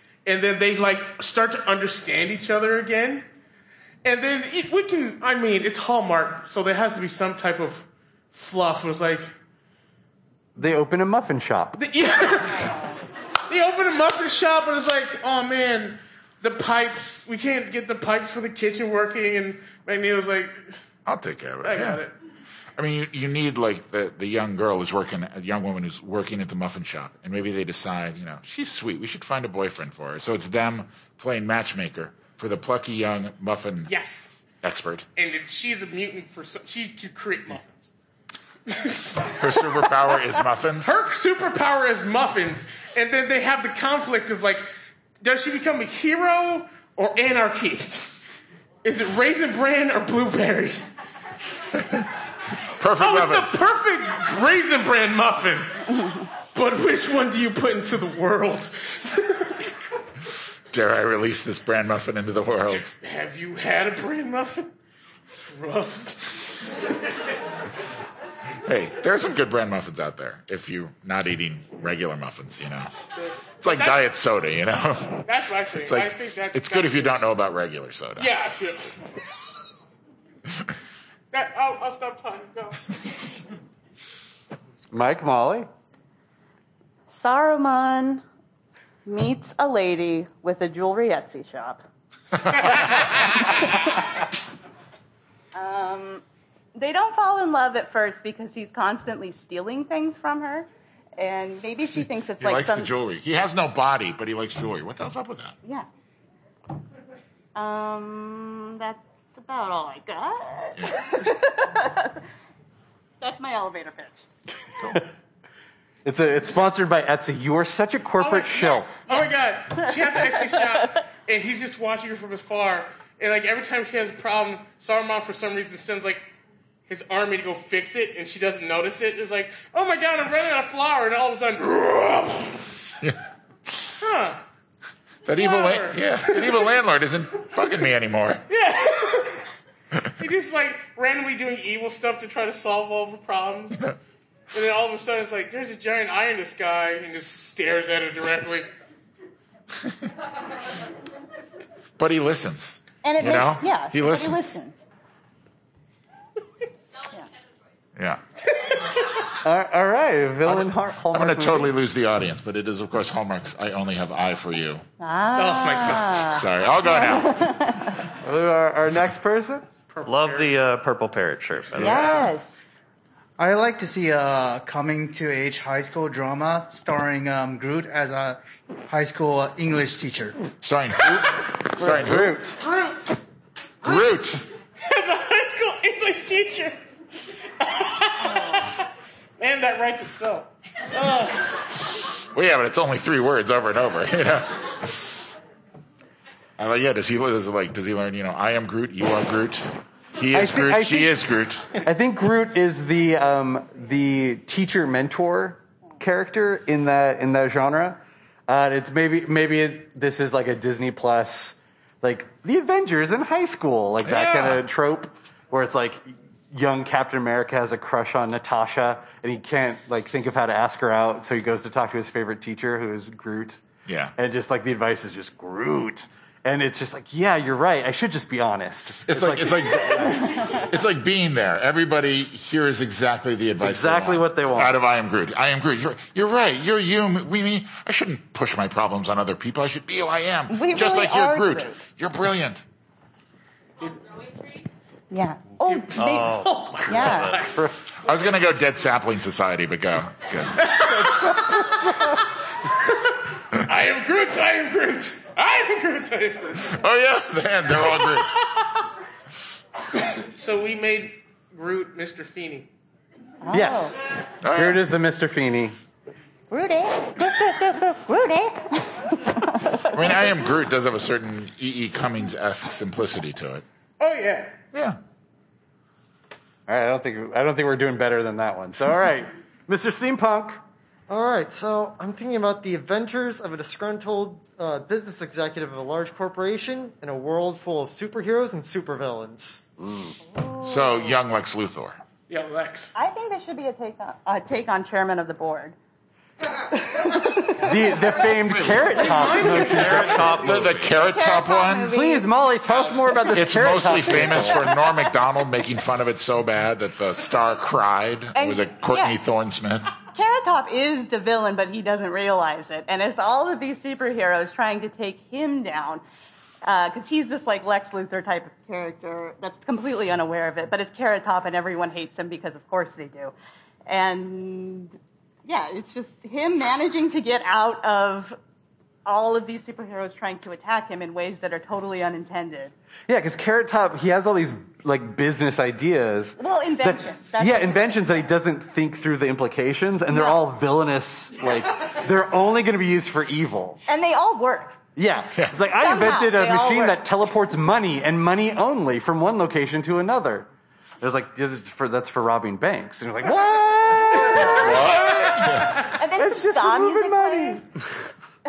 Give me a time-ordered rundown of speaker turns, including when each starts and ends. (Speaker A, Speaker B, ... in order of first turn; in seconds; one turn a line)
Speaker A: 0.3-3.3
Speaker A: 4.0-9.3
Speaker B: 10.6-11.8
Speaker A: 11.8-12.8
Speaker A: 13.5-20.8
Speaker C: 21.1-22.0
Speaker A: 21.6-22.1
Speaker C: 22.8-33.9
Speaker A: 33.9-34.3
Speaker C: 34.6-35.1
Speaker A: 35.2-37.9
Speaker A: 38.7-39.9
Speaker C: 39.2-41.0
Speaker A: 40.8-44.7
Speaker A: 45.2-48.1
Speaker A: 48.8-50.8
Speaker C: 52.8-53.6
Speaker A: 53.0-59.7
Speaker C: 60.7-62.9
Speaker A: 62.7-64.7
Speaker A: 65.3-66.4
Speaker C: 68.7-72.9
Speaker A: 73.2-74.0
Speaker C: 73.6-75.2
Speaker A: 75.2-77.3
Speaker C: 75.8-78.3
Speaker A: 78.2-78.8
Speaker A: 81.3-82.9
Speaker B: 84.9-85.7
Speaker D: 87.1-88.2
Speaker D: 89.1-91.8
Speaker A: 92.7-93.0
Speaker D: 95.5-96.2
Speaker D: 96.8-102.9
Speaker C: 102.4-105.6
Speaker D: 107.5-112.2
Speaker C: 110.8-111.3
Speaker D: 113.2-114.2
Speaker B: 116.0-118.9
Speaker A: 118.2-126.2
Speaker A: 126.9-132.9
Speaker A: 134.0-134.4
Speaker C: 135.3-138.4
Speaker A: 135.3-136.7
Speaker A: 138.5-139.4
Speaker A: 140.2-143.9
Speaker A: 144.5-148.7
Speaker C: 152.0-154.6
Speaker D: 153.0-154.8
Speaker C: 158.0-158.2
Speaker B: 159.3-161.8
Speaker C: 160.5-164.8
Speaker D: 165.0-168.0
Speaker A: 165.4-166.2
Speaker C: 166.3-167.6
Speaker B: 168.2-169.7
Speaker A: 169.9-170.6
Speaker E: 170.1-172.3
Speaker D: 171.8-172.5
Speaker F: 173.4-180.4
Speaker C: 180.6-182.4
Speaker B: 181.1-182.6
Speaker A: 182.6-183.2
Speaker C: 183.8-184.5
Speaker A: 183.8-186.8
Speaker A: 187.6-188.9
Speaker A: 189.4-191.6
Speaker C: 191.9-195.2
Speaker C: 196.6-201.8
Speaker B: 200.3-201.2
Speaker B: 201.8-223.6
Speaker C: 214.0-214.6
Speaker C: 223.9-224.1
Speaker B: 224.2-230.4
Speaker C: 229.1-242.6
Speaker B: 233.6-234.8
Speaker D: 240.5-241.8
Speaker A: 243.8-244.2
Speaker D: 245.1-247.4
Speaker A: 245.6-247.7
Speaker E: 246.0-247.6
Speaker C: 248.0-250.9
Speaker A: 250.6-251.7
Speaker A: 253.6-256.7
Speaker C: 256.6-258.5
Speaker A: 260.0-262.7
Speaker D: 263.4-263.9
Speaker B: 263.5-263.9
Speaker C: 264.4-264.8
Speaker B: 264.5-265.8
Speaker D: 266.5-269.9
Speaker C: 269.9-273.6
Speaker A: 274.0-274.6
Speaker C: 274.7-275.0
Speaker B: 276.7-280.6
Speaker G: 281.1-289.6
Speaker B: 289.8-290.1
Speaker D: 290.3-291.1
Speaker C: 290.6-292.0
Speaker A: 292.3-292.9
Speaker D: 292.9-295.8
Speaker D: 296.8-297.7
Speaker B: 297.5-300.7
Speaker C: 298.5-301.9
Speaker A: 298.9-300.5
Speaker E: 299.6-301.0
Speaker D: 300.9-302.4
Speaker B: 301.9-304.7
Speaker A: 302.7-303.2
Speaker C: 303.3-309.9
Speaker D: 308.4-309.2
Speaker D: 310.1-316.0
Speaker D: 316.6-323.3
Speaker D: 323.9-328.4
Speaker D: 329.1-332.7
Speaker B: 333.1-343.8
Speaker D: 336.4-338.2
Speaker D: 340.1-340.4
Speaker D: 343.9-344.8
Speaker B: 345.0-350.5
Speaker D: 345.8-347.0
Speaker B: 351.0-355.1
Speaker D: 354.1-357.6
Speaker C: 354.4-355.9
Speaker B: 356.2-357.6